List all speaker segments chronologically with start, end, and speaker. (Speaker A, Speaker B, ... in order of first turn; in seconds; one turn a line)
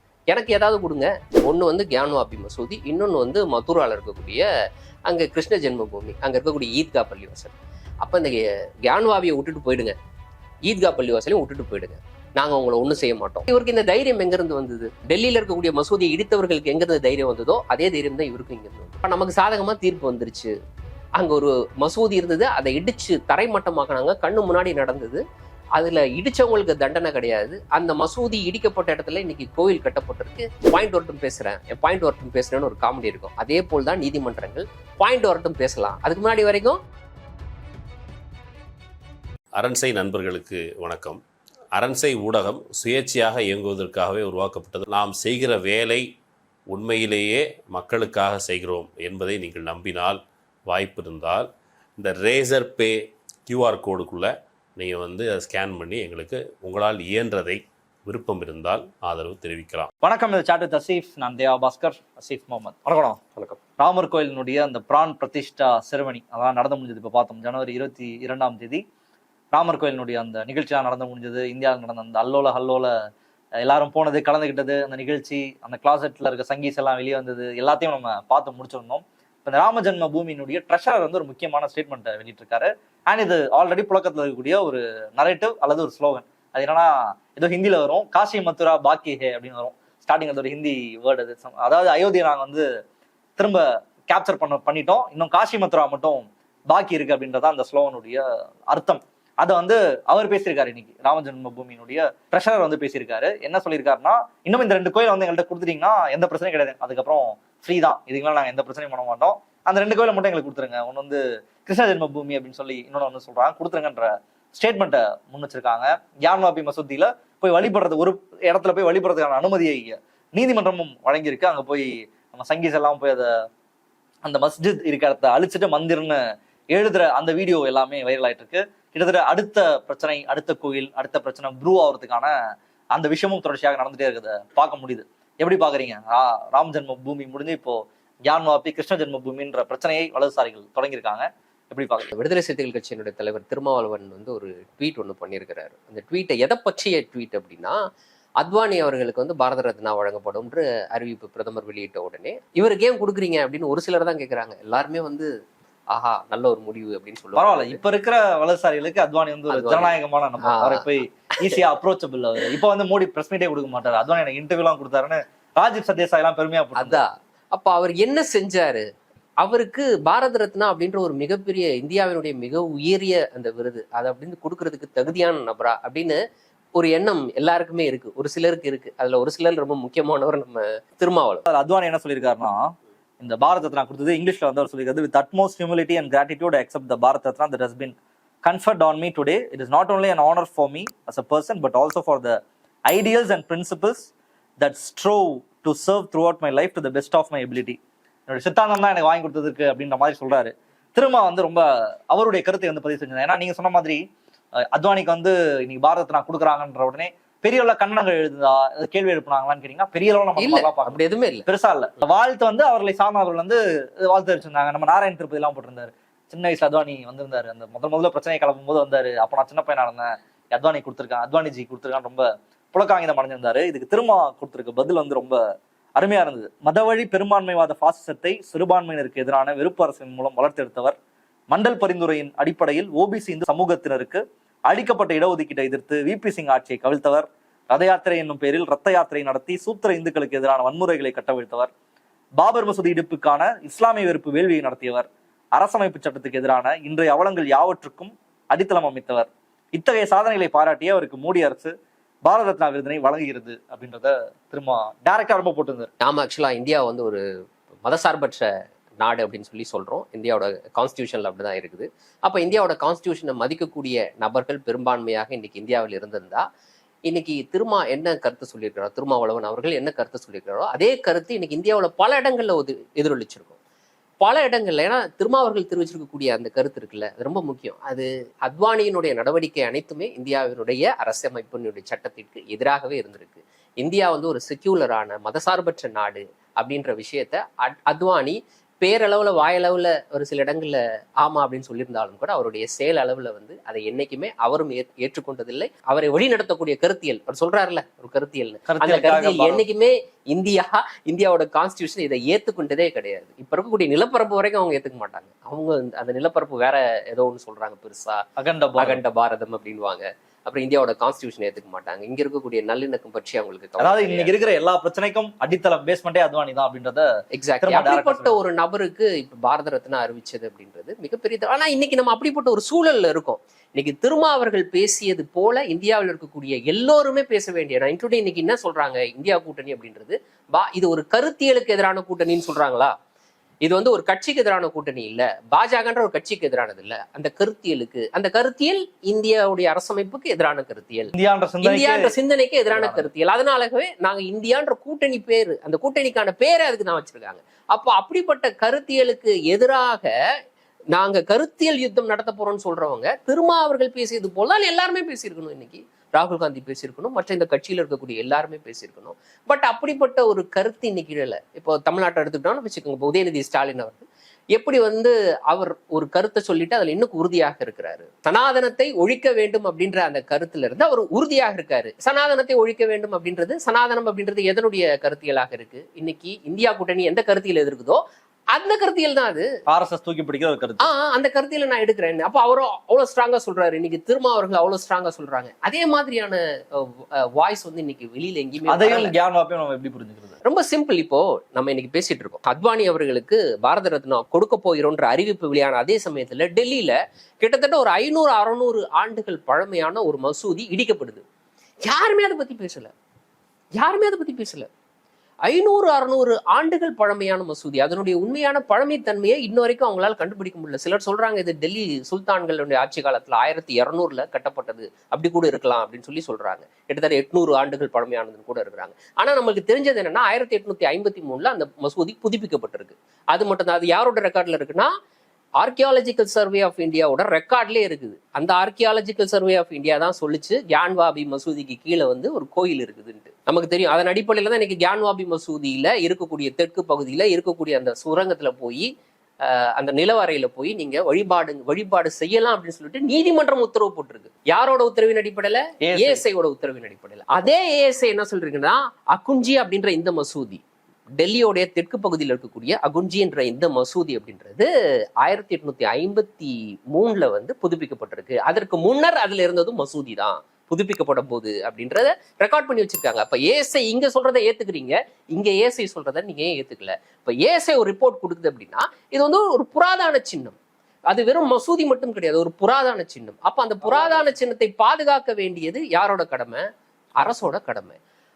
Speaker A: 0.3-4.5
Speaker A: 5.1-9.9
Speaker A: 10.7-20.5
Speaker A: 21.2-25.2
Speaker A: 25.8-36.8
Speaker B: 39.5-41.2
Speaker B: 41.7-46.1
Speaker B: 46.7-59.9
Speaker C: 60.0-63.2
Speaker C: 63.8-68.8
Speaker C: 69.5-72.9
Speaker C: 73.6-92.7
Speaker C: 93.4-123.3
Speaker C: 124.2-126.2
Speaker C: 126.7-132.3
Speaker C: 132.9-142.1
Speaker A: 142.1-147.8
Speaker A: 148.4-155.3
Speaker A: 155.9-157.8
Speaker C: 157.4-167.0
Speaker A: 159.5-160.8
Speaker A: 166.8-168.8
Speaker A: 169.4-176.2
Speaker A: 176.8-181.5
Speaker C: 181.5-182.6
Speaker C: 183.2-197.8
Speaker C: 198.3-204.0
Speaker C: 204.7-225.4
Speaker A: 210.4-211.5
Speaker C: 226.0-230.9
Speaker C: 231.5-241.7
Speaker C: 242.4-251.7
Speaker C: 252.2-255.9
Speaker A: 256.0-257.2
Speaker A: 257.9-258.4
Speaker A: 259.0-266.4
Speaker A: 267.1-273.6
Speaker A: 274.2-308.2
Speaker C: 298.7-299.6
Speaker C: 308.4-309.0
Speaker A: 308.8-314.3
Speaker C: 313.8-317.1
Speaker A: 317.3-332.9
Speaker C: 317.6-318.4
Speaker A: 333.6-341.1
Speaker C: 341.1-342.1
Speaker A: 341.6-350.1
Speaker C: 342.7-343.1
Speaker A: 350.9-378.0
Speaker A: 378.5-379.5
Speaker C: 379.7-380.9
Speaker A: 380.8-389.1
Speaker C: 388.7-390.4
Speaker A: 390.4-401.2
Speaker A: 401.9-402.9
Speaker A: 403.8-404.7
Speaker A: 405.5-424.9
Speaker A: 425.6-438.9
Speaker A: 439.4-450.6
Speaker C: 445.8-446.2
Speaker A: 451.2-454.7
Speaker A: 455.2-470.6
Speaker A: 471.1-476.6
Speaker A: 477.2-478.0